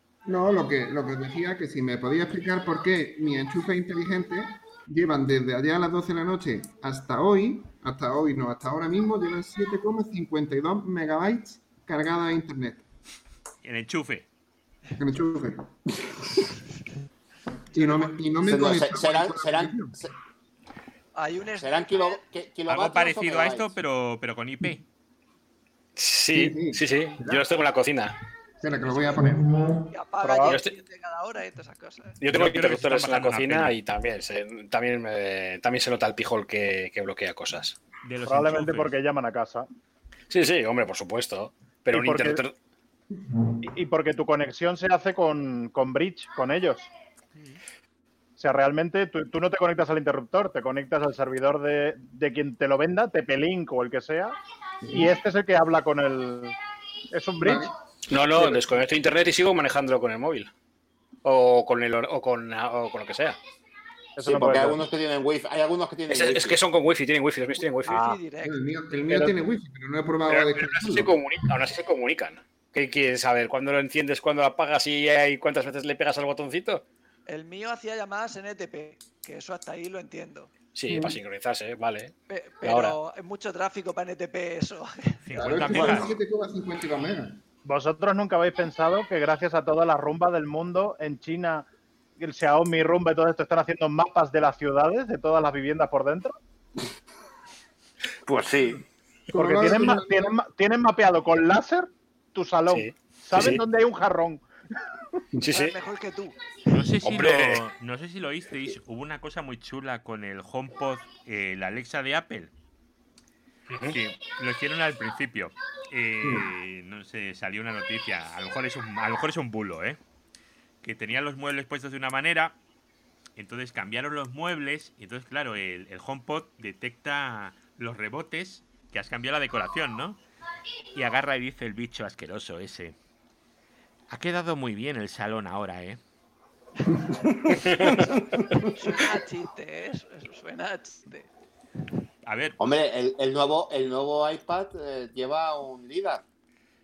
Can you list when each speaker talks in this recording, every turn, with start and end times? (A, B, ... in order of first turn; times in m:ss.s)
0:00.2-0:12.8 A
0:13.6-0:14.3 B
0:15.0-0:16.3 A
0:17.7-0:20.0 A
0:17.7-0:18.2 C
0:18.4-0:20.1 D
0:21.1-0:22.2 C
0:21.6-0:23.7 D
0:22.7-0:24.8 B
0:26.0-0:28.2 E
0:26.3-0:27.5 A
0:28.6-0:29.9 A
0:28.6-0:29.2 C
0:29.9-0:32.2 C
0:30.2-0:30.6 F
0:30.4-0:30.7 E
0:32.2-0:37.8 E
0:32.3-0:33.7 B
0:38.0-0:38.9 B
0:38.2-0:39.7 F
0:40.3-0:42.5 E
0:41.9-0:42.4 F
0:43.6-0:46.9 F
0:48.4-0:54.4 F
0:54.8-0:55.2 A
0:54.9-0:56.6 F
0:57.1-0:57.7 F
0:57.4-0:57.7 A
0:58.1-1:00.5 E
1:01.2-1:03.4 E
1:04.2-1:04.8 F
1:04.2-1:06.6 D
1:06.1-1:08.0 E
1:07.6-1:08.8 C
1:07.9-1:08.2 F
1:08.4-1:11.5 A
1:09.1-1:09.3 F
1:10.3-1:16.8 E
1:17.3-1:20.5 C
1:20.7-1:23.0 E
1:20.9-1:21.2 A
1:22.3-1:25.2 C
1:25.2-1:26.1 B
1:25.3-1:27.4 A
1:25.6-1:26.1 D
1:27.6-1:31.7 F
1:32.2-1:36.4 F
1:38.2-1:38.8 D
1:39.3-1:40.3 A
1:39.4-1:44.4 F
1:42.7-1:43.6 E
1:45.4-1:45.7 E
1:45.5-1:46.4 C
1:46.7-1:52.5 B
1:47.0-1:47.6 E
1:53.7-1:54.0 E
1:53.8-2:00.0 B
2:00.8-2:02.6 B
2:03.4-2:10.2 B
2:10.9-2:12.9 B
2:14.1-2:16.0 B
2:17.4-2:18.7 D
2:17.5-2:17.9 E
2:17.8-2:21.3 C
2:22.2-2:22.6 B
2:22.6-2:26.2 D